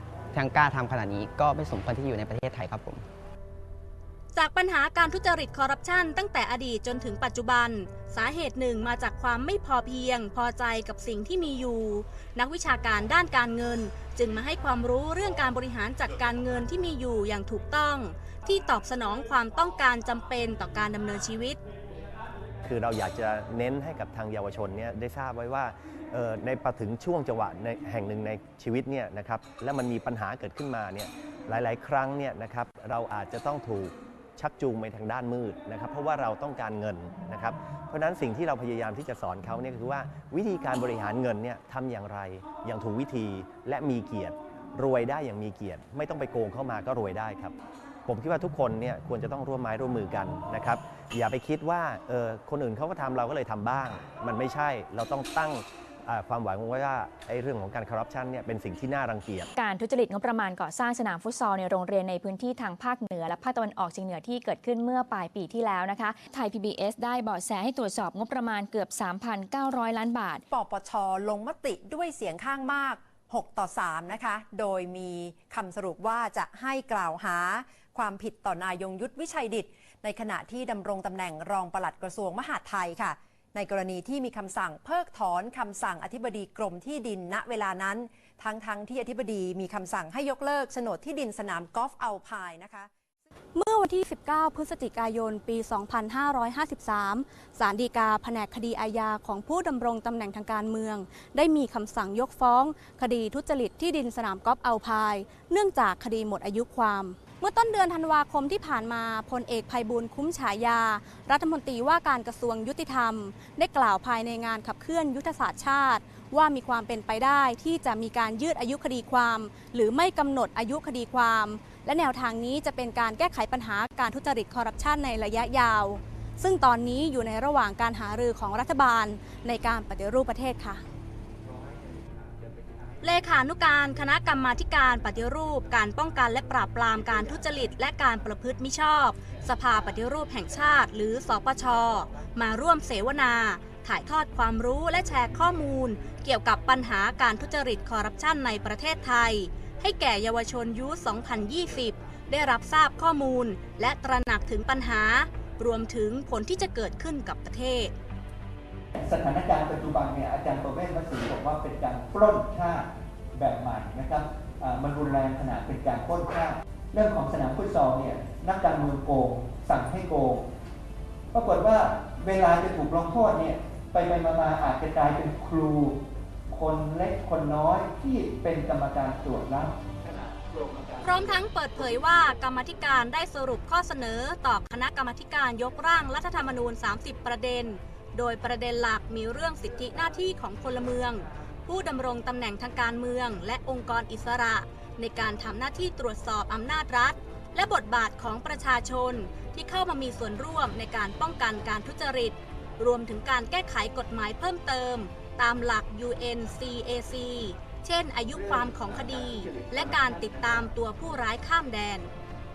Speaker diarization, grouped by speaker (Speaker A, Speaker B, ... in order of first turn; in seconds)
Speaker A: 0.3-3.0
Speaker B: 4.3-21.6, 133.0-157.9, 181.0-212.1
Speaker C: 22.6-47.6, 48.1-59.5
Speaker D: 59.6-70.4
Speaker E: 70.5-92.9
Speaker F: 93.6-130.8
Speaker G: 158.9-170.5, 171.3-176.0, 176.5-179.8